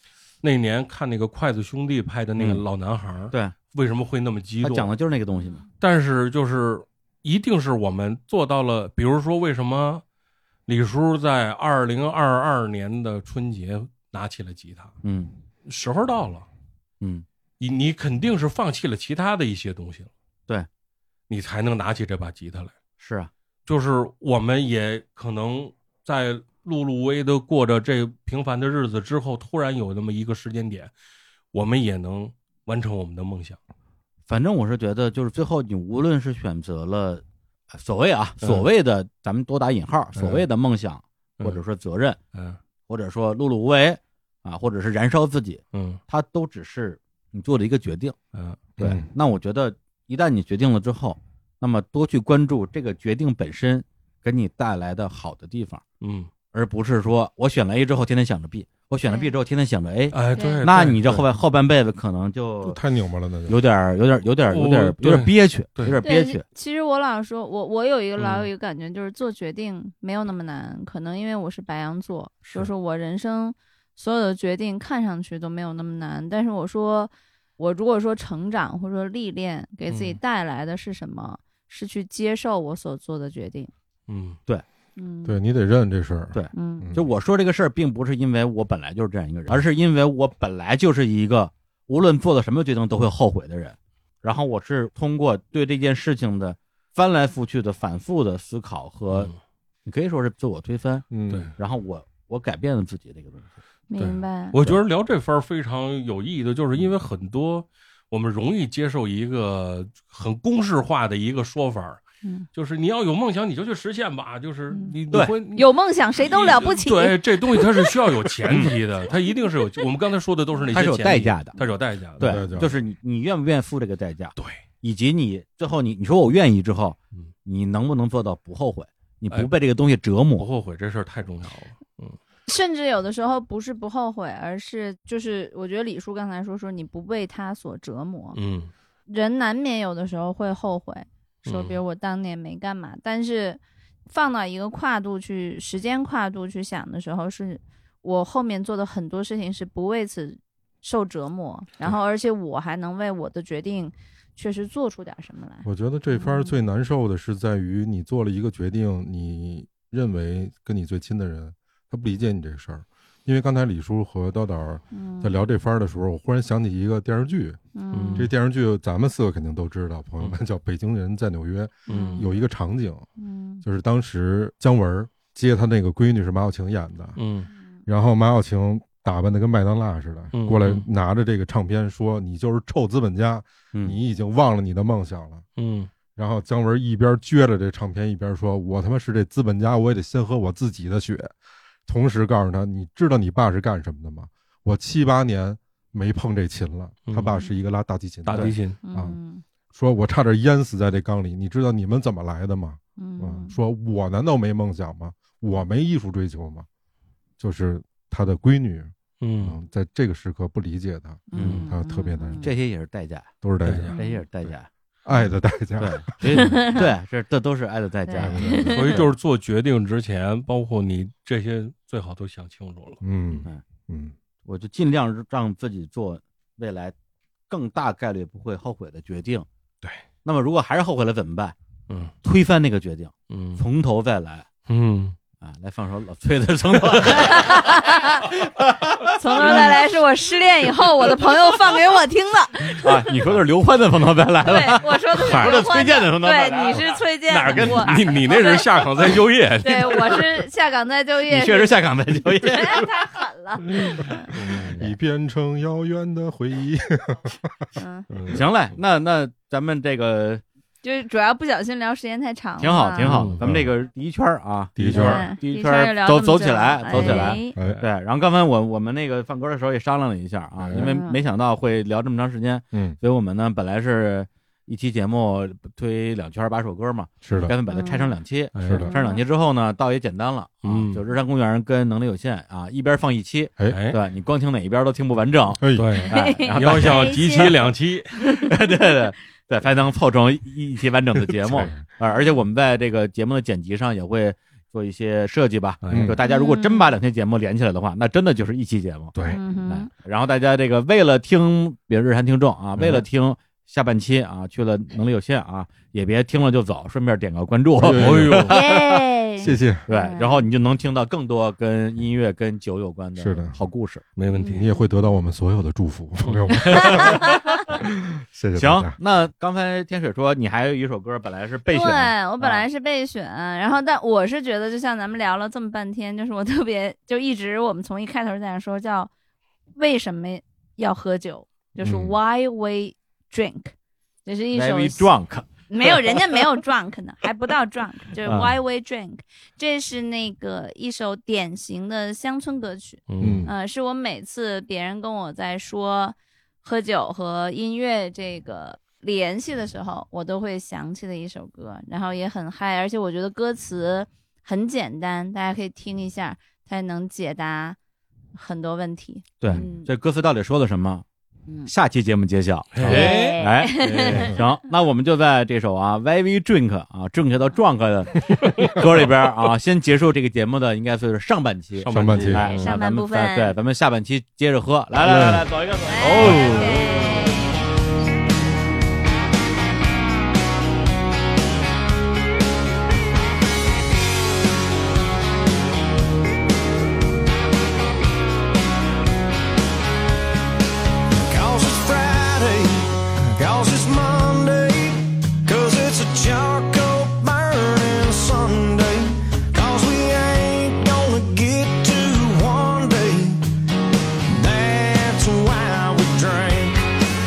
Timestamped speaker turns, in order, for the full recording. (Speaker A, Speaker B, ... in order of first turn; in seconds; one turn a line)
Speaker A: 0.4-4.9
Speaker B: 2.4-2.6
Speaker B: 4.6-5.6
Speaker A: 5.8-10.0
Speaker A: 10.7-14.9
Speaker B: 15.0-15.3
Speaker A: 15.7-16.5
Speaker A: 17.6-20.1
Speaker A: 21.3-22.7
Speaker B: 23.0-23.3
Speaker A: 23.6-30.9
Speaker A: 31.5-33.6
Speaker B: 34.3-42.2
Speaker A: 40.2-40.4
Speaker A: 42.3-42.6
Speaker B: 42.9-48.1
Speaker A: 45.7-46.0
Speaker A: 48.3-48.7
Speaker B: 48.8-55.8
Speaker C: 48.8-49.0
Speaker A: 56.0-56.3
Speaker B: 56.5-62.8
Speaker A: 60.1-61.2
Speaker D: 60.3-60.7
Speaker C: 62.6-63.6
Speaker B: 63.5-66.4
Speaker A: 64.5-66.0
Speaker D: 66.0-83.7
Speaker A: 68.2-68.5
Speaker A: 79.9-80.2
Speaker A: 84.1-84.4
Speaker D: 85.0-85.3
Speaker C: 85.2-87.0
Speaker B: 86.3-99.3
Speaker D: 86.5-86.9
Speaker B: 99.8-103.5
Speaker C: 101.1-101.5
Speaker D: 103.9-104.5
Speaker A: 104.0-112.0
Speaker A: 112.5-122.5
Speaker D: 114.7-115.0
Speaker D: 115.5-117.9
Speaker B: 118.5-118.7
Speaker B: 120.7-121.6
Speaker B: 122.2-130.4
Speaker C: 122.2-122.7
Speaker A: 130.4-132.2
Speaker D: 132.5-138.4
Speaker A: 138.3-138.7
Speaker D: 139.1-156.6
Speaker A: 141.4-141.8
Speaker C: 155.6-167.6
Speaker D: 164.9-165.3
Speaker D: 167.7-168.3
Speaker A: 167.9-168.3
Speaker C: 168.1-173.1
Speaker A: 171.9-172.2
Speaker D: 171.9-172.2
Speaker D: 173.2-173.6
Speaker C: 173.6-177.2
Speaker A: 177.2-177.5
Speaker C: 177.9-185.4
Speaker A: 180.3-180.8
Speaker A: 185.6-185.9
Speaker C: 186.2-191.3
Speaker C: 191.8-199.2
Speaker A: 197.1-197.3
Speaker A: 198.2-198.8
Speaker D: 198.8-199.4
Speaker C: 199.7-206.7
Speaker D: 203.0-203.5
Speaker C: 207.4-212.6
Speaker A: 209.2-209.6
Speaker D: 211.3-212.5
Speaker B: 211.3-211.7
Speaker B: 212.4-213.3
Speaker C: 213.4-214.5
Speaker A: 213.6-213.9
Speaker B: 213.9-214.7
Speaker D: 214.0-214.2
Speaker C: 215.0-216.6
Speaker B: 215.8-218.7
Speaker D: 216.3-216.9
Speaker D: 218.1-219.0
Speaker C: 218.2-219.1
Speaker A: 218.6-223.0
Speaker C: 223.0-224.1
Speaker B: 224.4-226.9
Speaker B: 227.5-229.4
Speaker B: 230.2-231.5
Speaker A: 231.9-232.1
Speaker B: 232.2-234.5
Speaker A: 233.3-233.6
Speaker A: 234.7-235.2
Speaker B: 235.4-239.8
Speaker D: 237.1-238.3
Speaker D: 239.1-243.1
Speaker A: 239.4-239.7
Speaker B: 242.8-248.2
Speaker D: 244.4-248.7
Speaker A: 247.5-250.4
Speaker D: 249.6-254.3
Speaker B: 251.3-252.9
Speaker C: 254.3-257.6
Speaker A: 254.3-254.9
Speaker D: 257.8-258.1
Speaker A: 258.1-258.4
Speaker B: 258.3-260.4
Speaker D: 260.8-263.2
Speaker B: 262.6-287.7
Speaker A: 263.0-263.4
Speaker C: 263.4-263.7
Speaker C: 264.8-265.3
Speaker D: 264.9-267.6
Speaker C: 266.9-267.8
Speaker C: 270.6-270.9
Speaker D: 270.7-271.2
Speaker C: 272.7-273.0
Speaker C: 277.2-277.5
Speaker D: 277.7-278.2
Speaker A: 278.5-278.9
Speaker D: 278.8-279.2
Speaker A: 280.6-281.0
Speaker A: 283.7-284.0
Speaker C: 285.6-286.0
Speaker A: 285.8-288.1
Speaker D: 286.0-288.6
Speaker B: 288.4-308.8
Speaker C: 291.5-291.8
Speaker A: 295.8-296.1
Speaker C: 295.9-296.2
Speaker D: 296.2-296.9
Speaker C: 299.1-299.4
Speaker D: 299.2-299.9
Speaker C: 307.8-309.9
Speaker A: 307.8-308.6
Speaker D: 308.5-310.5
Speaker B: 309.9-314.0
Speaker C: 313.2-313.6
Speaker A: 314.2-314.7
Speaker D: 314.3-314.7
Speaker C: 314.4-319.0
Speaker A: 316.2-317.0
Speaker B: 316.8-317.5
Speaker D: 316.9-317.4
Speaker B: 318.5-322.6
Speaker D: 321.7-329.1
Speaker D: 329.8-333.7
Speaker D: 334.2-335.1
Speaker B: 334.5-336.5
Speaker D: 335.7-357.8
Speaker B: 338.2-338.5
Speaker A: 343.1-343.5
Speaker C: 343.2-343.5
Speaker D: 358.3-359.9
Speaker B: 359.4-361.0
Speaker B: 361.6-377.1
Speaker A: 362.8-364.4
Speaker D: 362.8-364.4
Speaker A: 371.8-372.7
Speaker C: 371.9-372.5
Speaker D: 372.4-373.5
Speaker A: 375.0-375.4
Speaker D: 375.9-377.6
Speaker A: 376.0-376.8
Speaker E: 391.1-403.4
Speaker E: 404.3-406.9